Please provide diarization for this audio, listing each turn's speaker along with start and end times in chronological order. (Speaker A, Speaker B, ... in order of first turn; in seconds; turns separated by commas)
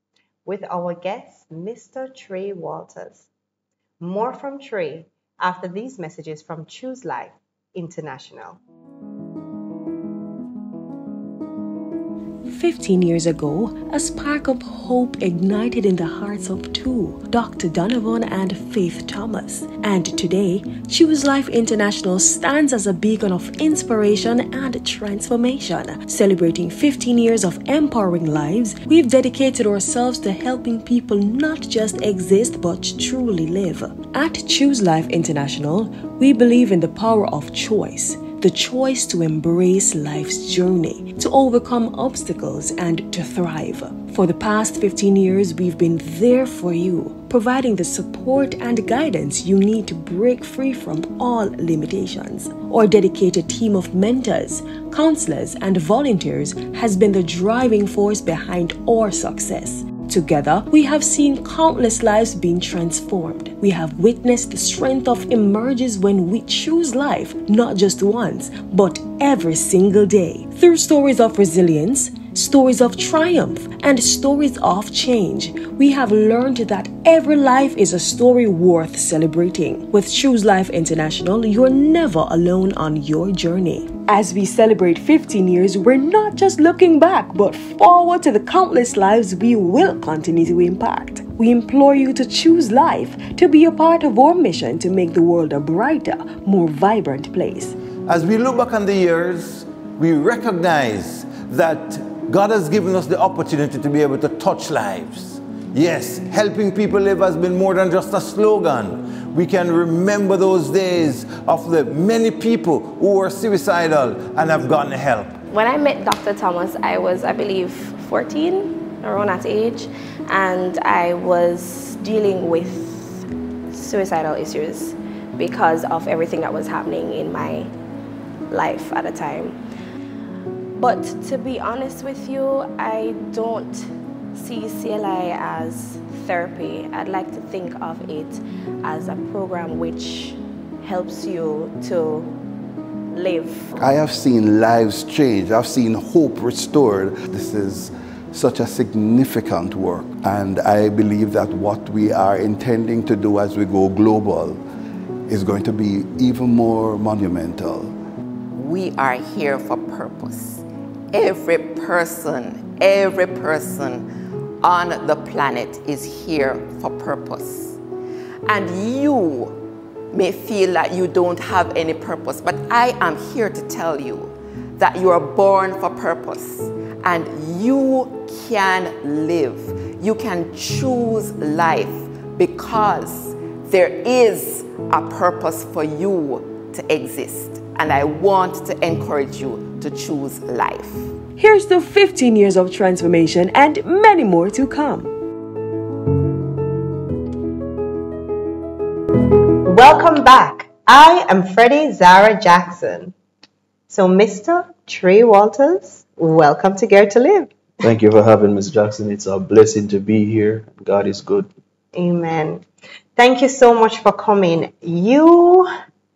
Speaker A: 0.5-3.3, Speaker A: 4.0-8.6, Speaker B: 12.5-97.8, Speaker C: 98.1-115.4, Speaker D: 115.5-127.7, Speaker D: 128.5-129.6, Speaker D: 130.8-142.3, Speaker D: 143.1-143.7, Speaker E: 143.8-154.6, Speaker E: 155.3-157.9, Speaker F: 158.5-164.1, Speaker F: 164.6-167.8, Speaker F: 168.5-169.6, Speaker F: 170.1-191.1, Speaker B: 191.4-195.1, Speaker A: 199.6-203.1, Speaker A: 203.9-207.5, Speaker G: 207.8-211.5, Speaker A: 211.9-212.6, Speaker A: 213.2-215.7